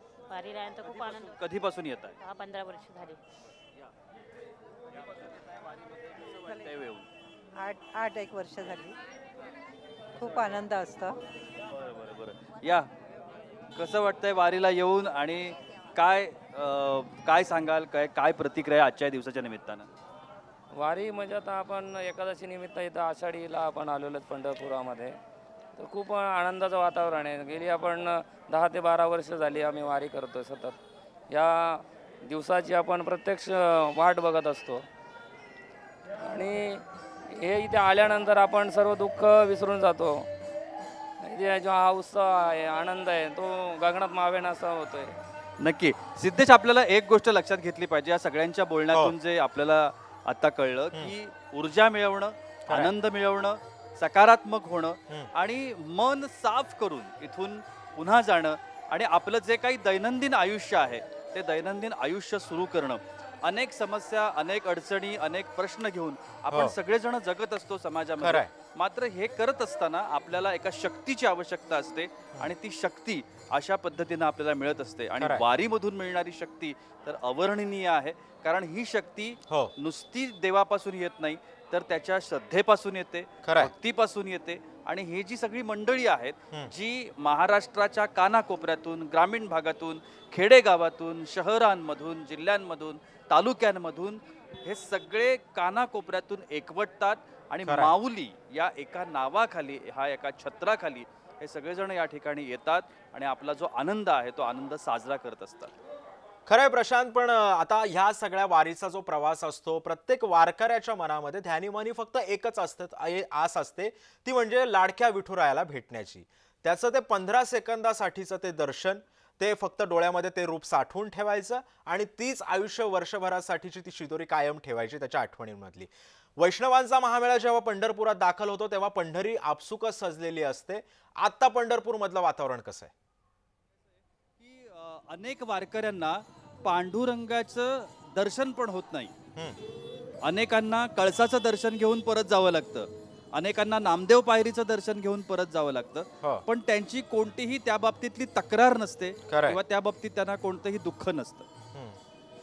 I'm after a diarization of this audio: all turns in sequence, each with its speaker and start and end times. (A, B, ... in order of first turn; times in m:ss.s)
0:00.3-0:01.4 A
0:00.8-0:02.2 B
0:02.2-0:03.2 A
0:05.0-0:07.1 B
0:07.6-0:08.9 C
0:10.2-0:11.2 C
0:11.7-0:12.9 B
0:13.8-0:19.9 B
0:20.7-0:25.2 D
0:25.8-0:30.8 D
0:31.3-0:34.8 D
0:36.2-0:40.3 D
0:41.2-0:45.2 D
0:45.6-1:45.7 B
1:06.5-1:06.8 E
1:08.2-1:08.5 E
1:23.4-1:23.7 E
1:37.6-1:37.9 E
1:46.5-2:12.9 E
2:14.4-2:19.1 B
2:20.2-2:31.5 B
2:29.3-2:29.6 E
2:31.7-2:32.0 E